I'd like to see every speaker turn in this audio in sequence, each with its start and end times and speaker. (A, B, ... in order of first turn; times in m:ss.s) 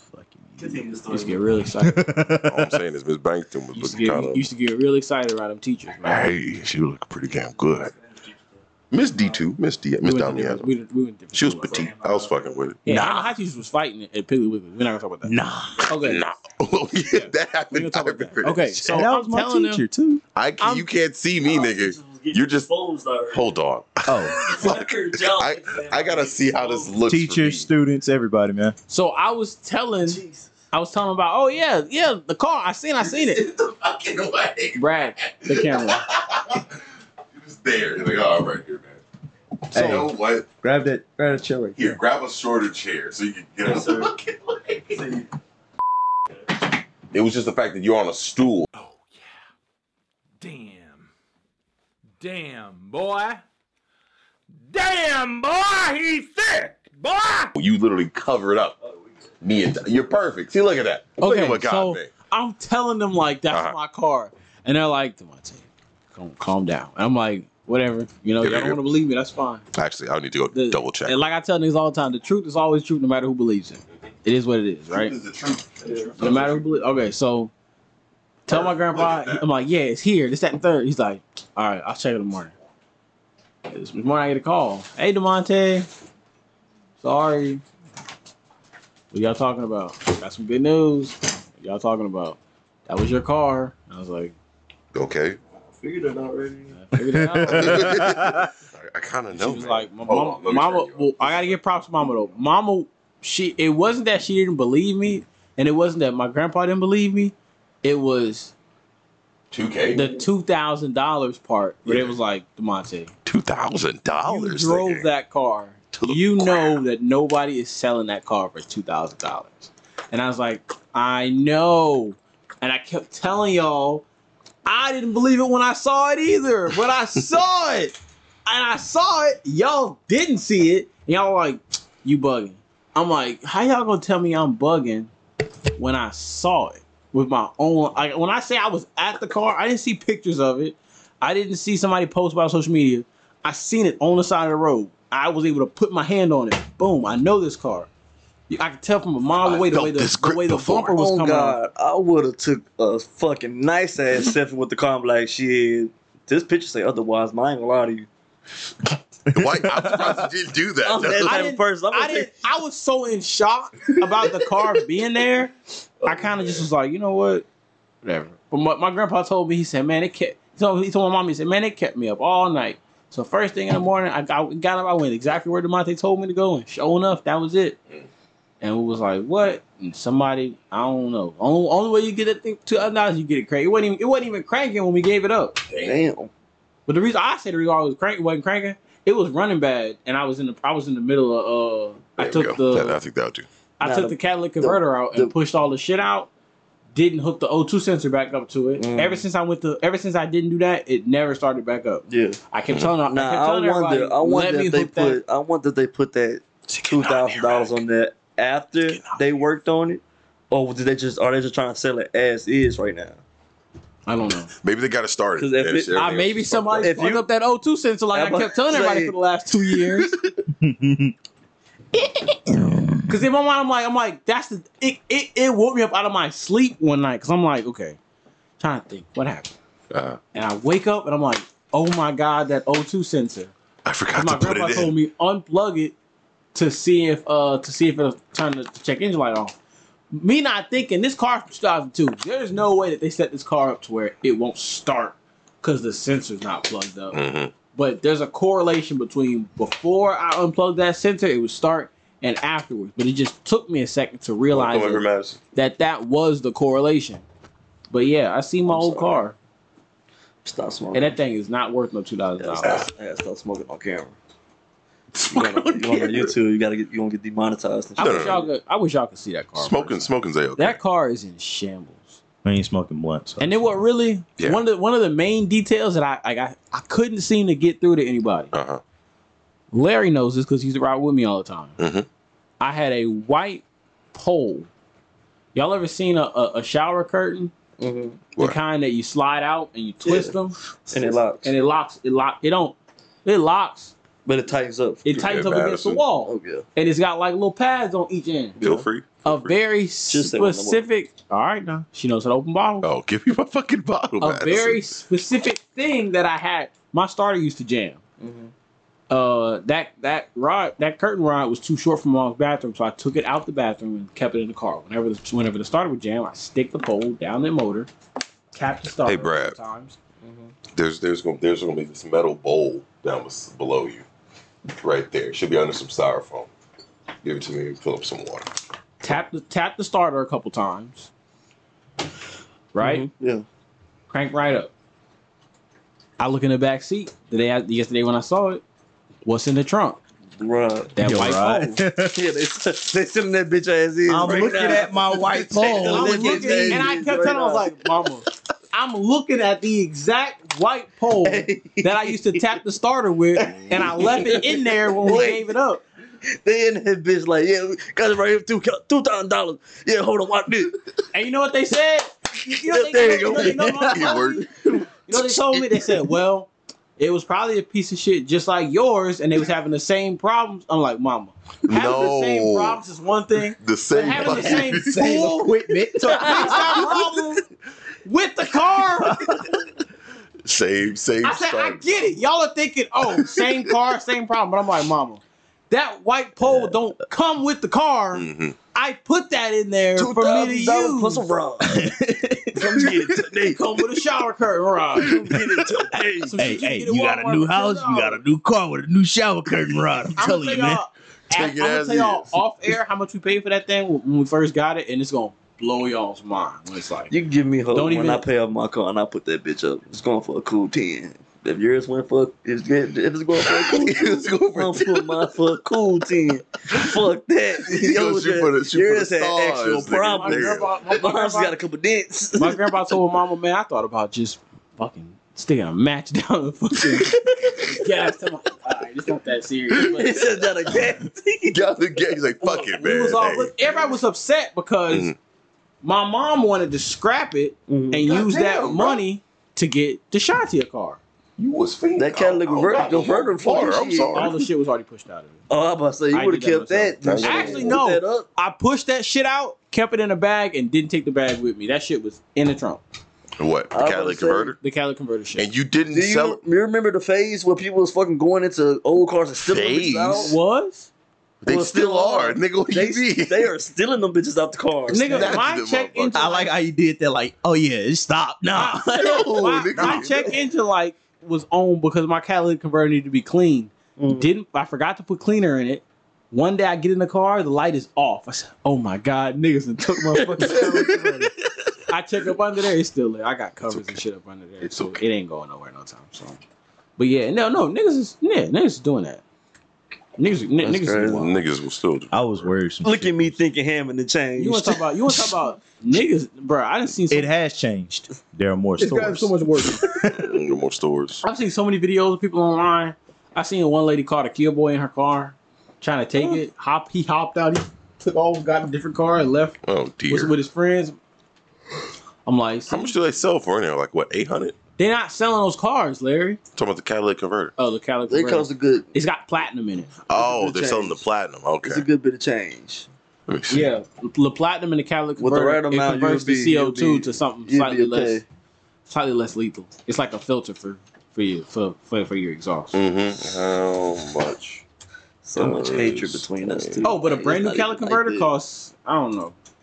0:00.1-0:00.8 A
0:00.6-0:01.4 B
0:01.1-0:02.1 C
0:01.8-0:02.8 A
0:02.4-0:04.5 D
0:03.7-0:06.3 C
0:06.0-0:07.9 D
0:07.7-0:08.4 B
0:08.9-0:10.7 D
0:10.0-0:11.9 C
0:11.3-0:12.8 D
0:11.7-0:12.5 B
0:12.8-0:15.3 C
0:12.9-0:13.3 A
0:15.2-0:15.9 A
0:15.9-0:16.2 C
0:16.0-0:19.0 D
0:17.1-0:19.8 C
0:18.8-0:20.2 A
0:20.4-0:22.7 D
0:20.6-0:20.9 C
0:21.4-0:23.5 B
0:23.3-0:27.7 D
0:24.0-0:24.4 A
0:24.3-0:27.0 B
0:27.1-0:28.8 A
0:28.9-0:30.2 C
0:30.1-0:30.5 B
0:30.7-0:33.4 C
0:33.0-0:36.7 D
0:34.8-0:36.1 C
0:37.3-0:39.0 D
0:39.7-0:40.5 D
0:39.7-0:40.1 A
0:40.6-0:42.0 A
0:41.8-0:45.1 D
0:43.6-0:44.1 B
0:45.0-0:45.2 B
0:47.1-0:48.7 D
0:50.4-0:51.1 E
0:52.2-0:53.3 E
0:52.2-0:53.4 C
0:54.7-0:56.9 E
0:54.8-0:56.2 C
0:57.0-0:57.5 C
0:57.6-0:58.8 D
0:59.4-1:02.1 D
1:01.2-1:09.6 C
1:03.5-1:03.8 D
1:08.4-1:08.8 D
1:09.8-1:11.2 D
1:10.5-1:15.2 C
1:14.9-1:16.6 D
1:15.9-1:16.1 B
1:16.2-1:17.5 C
1:18.5-1:22.5 C
1:18.5-1:19.4 D
1:23.7-1:25.9 C
1:27.0-1:27.6 C
1:29.1-1:34.4 C
1:34.9-1:35.4 D
1:35.8-1:36.8 B
1:36.7-1:37.9 C
1:37.1-1:38.5 A
1:37.4-1:41.6 D
1:39.3-1:48.5 C
1:49.5-1:50.2 D
1:49.9-1:53.1 C
1:51.9-1:52.1 D
1:53.2-1:55.1 D
1:54.2-2:04.0 C
1:55.9-1:56.8 D
2:04.7-2:08.0 C
2:08.5-2:15.1 C
2:15.8-2:27.9 C
2:28.5-2:31.6 C
2:29.4-2:31.0 D
2:30.9-2:38.1 B
2:39.3-2:40.2 A
2:39.3-2:41.5 D
2:40.8-2:42.3 B
2:41.2-2:47.4 C
2:46.1-2:46.6 D
2:48.0-2:57.8 C
2:58.6-3:05.6 C
3:05.7-3:06.0 D
3:05.8-3:06.3 B
3:06.9-3:13.0 C
3:12.2-3:13.5 D
3:13.8-3:16.3 C
3:13.8-3:15.3 B
3:17.0-3:25.2 C
3:18.8-3:19.2 B
3:22.1-3:22.4 B
3:22.7-3:22.9 D
3:23.1-3:33.2 B
3:26.9-3:27.7 D
3:28.9-3:29.3 D
3:34.1-3:34.5 C
3:34.6-3:37.0 D
3:35.4-3:36.1 B
3:36.0-3:40.1 C
3:36.8-3:37.2 B
3:38.1-3:39.2 B
3:39.9-3:40.3 D
3:40.5-3:41.1 A
3:42.5-3:43.1 A
3:43.1-3:48.0 C
3:48.6-3:49.5 C
3:49.9-3:50.2 D
3:50.3-3:53.5 C
3:53.8-3:54.9 D
3:54.1-3:56.0 C
3:56.5-3:59.6 C
4:00.1-4:07.2 C
4:07.1-4:07.5 D
4:07.7-4:17.2 C
4:14.5-4:15.4 D
4:17.9-4:19.4 C
4:18.7-4:19.2 B
4:20.4-4:21.2 B
4:20.9-4:22.9 C
4:22.4-4:24.2 B
4:25.2-4:26.3 D
4:25.3-4:28.5 B
4:28.0-4:32.2 C
4:28.0-4:28.4 D
4:29.6-4:30.8 D
4:32.4-4:33.6 A
4:33.4-4:38.5 C
4:38.5-4:38.8 D
4:39.7-4:41.8 C
4:41.8-4:42.1 D
4:42.6-4:44.7 C
4:45.5-4:47.5 C
4:47.8-4:48.2 B
4:48.4-4:53.9 C
4:50.0-4:50.3 B
4:50.9-4:51.5 B
4:54.2-4:55.0 B
4:55.0-4:58.6 C
4:55.1-4:56.0 D
4:56.2-4:56.6 B
4:58.6-4:58.9 B
4:58.6-4:59.6 D
4:59.2-5:02.9 C
5:00.1-5:00.8 B
5:02.8-5:04.8 D
5:04.2-5:08.0 C
5:08.2-5:08.5 B
5:09.1-5:17.9 C
5:18.5-5:20.0 C
5:19.0-5:19.6 D
5:20.2-5:20.5 B
5:20.7-5:24.1 D
5:24.8-5:26.5 D
5:27.2-5:28.5 D
5:29.0-5:31.1 C
5:32.7-5:33.1 C
5:32.8-5:33.4 B
5:34.1-5:34.7 C
5:36.2-5:38.6 C
5:39.2-5:40.0 C
5:40.4-5:40.9 B
5:41.0-5:41.8 C
5:41.0-5:42.2 A
5:42.1-5:47.7 B
5:44.1-5:46.9 A
5:45.6-5:55.8 C
5:51.2-5:52.4 B
5:53.4-5:55.5 B
5:56.3-6:00.7 B
6:01.1-6:04.5 C
6:02.5-6:05.8 B
6:03.9-6:04.5 D
6:05.1-6:15.5 C
6:11.7-6:12.8 D
6:13.6-6:15.3 D
6:14.1-6:17.0 A
6:16.0-6:17.4 C
6:16.0-6:17.0 B
6:18.0-6:19.2 C
6:19.0-6:19.5 A
6:20.4-6:22.2 D
6:21.2-6:31.2 C
6:28.1-6:28.6 D
6:30.0-6:31.8 B
6:31.6-6:33.2 A
6:32.6-6:33.6 B
6:33.5-6:35.3 C
6:35.0-6:36.4 B
6:36.2-6:38.2 C
6:36.4-6:40.8 A
6:40.2-6:47.1 C
6:41.3-6:42.4 D
6:47.1-7:02.8 B
6:47.7-6:48.2 C
6:53.4-6:55.3 D
6:57.6-7:00.7 D
7:00.2-7:01.6 C
7:02.4-7:10.2 C
7:07.1-7:07.8 B
7:09.7-7:11.6 B
7:11.5-7:13.9 D
7:12.4-7:15.1 C
7:14.9-7:15.2 D
7:15.8-7:21.0 C
7:17.7-7:18.2 B
7:18.0-7:19.0 D
7:21.4-7:24.4 D
7:22.0-7:24.3 B
7:24.1-7:25.4 C
7:25.5-7:28.3 B
7:26.1-7:32.8 C
7:27.0-7:27.8 D
7:33.4-7:34.6 D
7:33.7-7:34.5 B
7:34.6-7:35.5 C
7:35.4-7:36.4 D
7:35.9-7:40.4 B
7:39.4-7:40.3 D
7:40.2-7:40.9 C
7:41.4-7:43.5 D
7:41.4-7:45.4 B
7:44.9-7:46.5 C
7:45.1-7:46.2 D
7:46.2-7:49.3 A
7:48.5-8:01.3 C
7:48.9-7:50.3 D
7:49.8-7:50.1 A
7:54.0-7:54.3 B
8:00.2-8:00.8 B
8:00.5-8:01.3 D
8:01.9-8:06.4 C
8:03.7-8:04.0 D
8:04.6-8:05.0 D
8:07.0-8:09.2 C
8:10.2-8:11.3 C
8:10.6-8:11.4 B
8:11.1-8:12.5 D
8:12.1-8:13.4 A
8:12.8-8:14.8 B
8:14.4-8:17.3 C
8:17.1-8:20.3 A
8:18.8-8:20.0 C
8:20.0-8:21.2 D
8:21.2-8:29.6 C
8:29.6-8:30.3 D
8:30.1-8:31.0 C
8:32.3-8:32.9 C
8:32.7-8:34.6 D
8:34.8-8:36.4 C
8:36.6-8:37.5 D
8:37.6-8:39.9 C
8:38.1-8:38.9 B
8:40.1-8:41.8 D
8:40.1-8:41.0 B
8:41.6-8:42.9 B
8:43.3-8:43.7 D
8:43.5-8:48.2 C
8:45.2-8:48.2 B
8:48.9-8:52.8 C
8:52.7-8:54.6 D
8:55.2-8:58.3 B
8:55.4-8:56.9 D
8:56.8-8:59.4 C